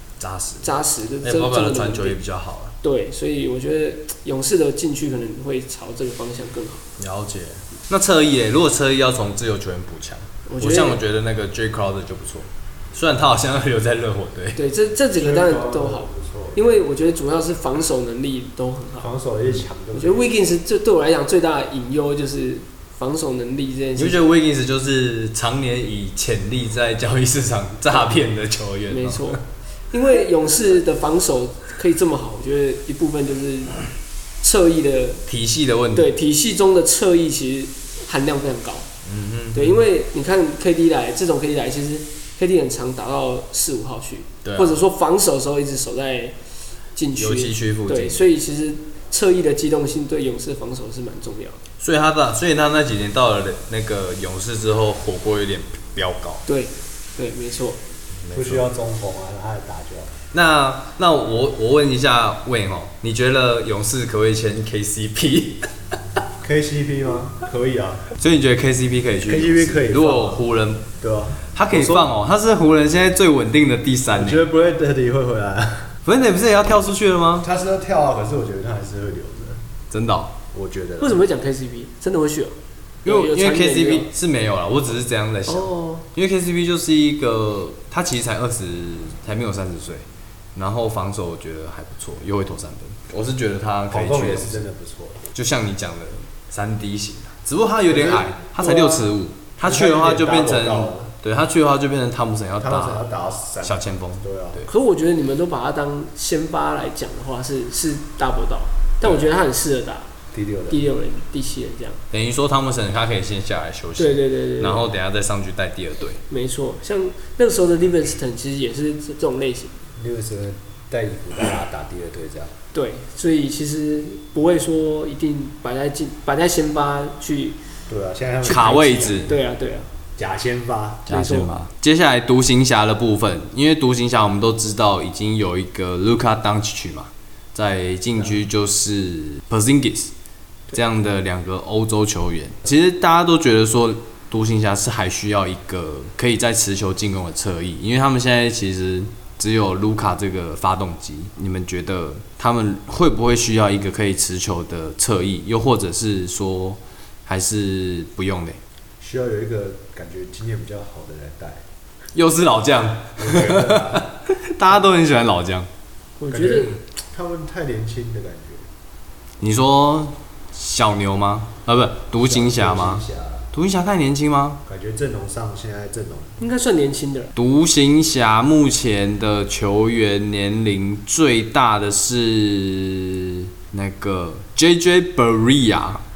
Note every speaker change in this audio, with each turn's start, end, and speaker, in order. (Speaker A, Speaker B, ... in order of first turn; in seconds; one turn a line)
Speaker A: 0.2-2.7
Speaker B: 0.6-2.2
Speaker B: 2.8-6.8
Speaker A: 7.0-14.6
Speaker B: 10.5-11.0
Speaker B: 14.6-19.1
Speaker C: 15.2-16.6
Speaker C: 19.0-20.3
Speaker B: 19.9-24.2
Speaker A: 23.9-29.4
Speaker B: 27.9-28.2
Speaker B: 28.9-33.8
Speaker B: 34.4-35.2
Speaker A: 35.3-36.1
Speaker B: 35.9-38.9
Speaker A: 39.0-39.8
Speaker B: 39.5-46.3
Speaker A: 44.4-44.8
Speaker B: 46.9-51.6
Speaker A: 47.2-48.2
Speaker A: 51.8-56.4
Speaker B: 56.5-57.8
Speaker A: 58.2-58.6
Speaker C: 58.3-60.2
Speaker A: 60.3-65.7
Speaker C: 66.4-68.1
Speaker A: 68.2-70.9
Speaker C: 69.2-70.4
Speaker C: 71.0-72.1
Speaker A: 71.5-74.4
Speaker C: 74.1-76.0
Speaker A: 76.0-77.5
Speaker C: 77.4-79.6
Speaker A: 79.9-80.3
Speaker C: 80.5-81.2
Speaker B: 81.0-84.1
Speaker A: 83.0-94.6
Speaker B: 85.5-86.0
Speaker C: 93.9-95.2
Speaker A: 95.3-103.1
Speaker C: 97.9-99.0
Speaker C: 99.6-101.1
Speaker C: 102.6-104.6
Speaker A: 103.6-104.7
Speaker B: 104.7-110.1
Speaker C: 110.3-110.8
Speaker B: 110.7-112.0
Speaker A: 112.1-116.2
Speaker B: 114.0-114.8
Speaker B: 116.3-119.8
Speaker C: 120.0-122.5
Speaker B: 122.7-127.6
Speaker C: 127.9-129.3
Speaker A: 128.4-129.3
Speaker B: 128.4-129.9
Speaker C: 130.2-131.4
Speaker B: 131.1-131.6
Speaker A: 131.1-140.1
Speaker A: 140.7-158.6
Speaker C: 159.0-161.6
Speaker A: 162.1-165.7
Speaker C: 163.2-164.1
Speaker B: 166.2-166.8
Speaker C: 166.3-168.7
Speaker A: 169.4-174.6
Speaker C: 172.2-173.5
Speaker C: 174.7-176.4
Speaker B: 176.4-177.3
Speaker A: 177.3-186.0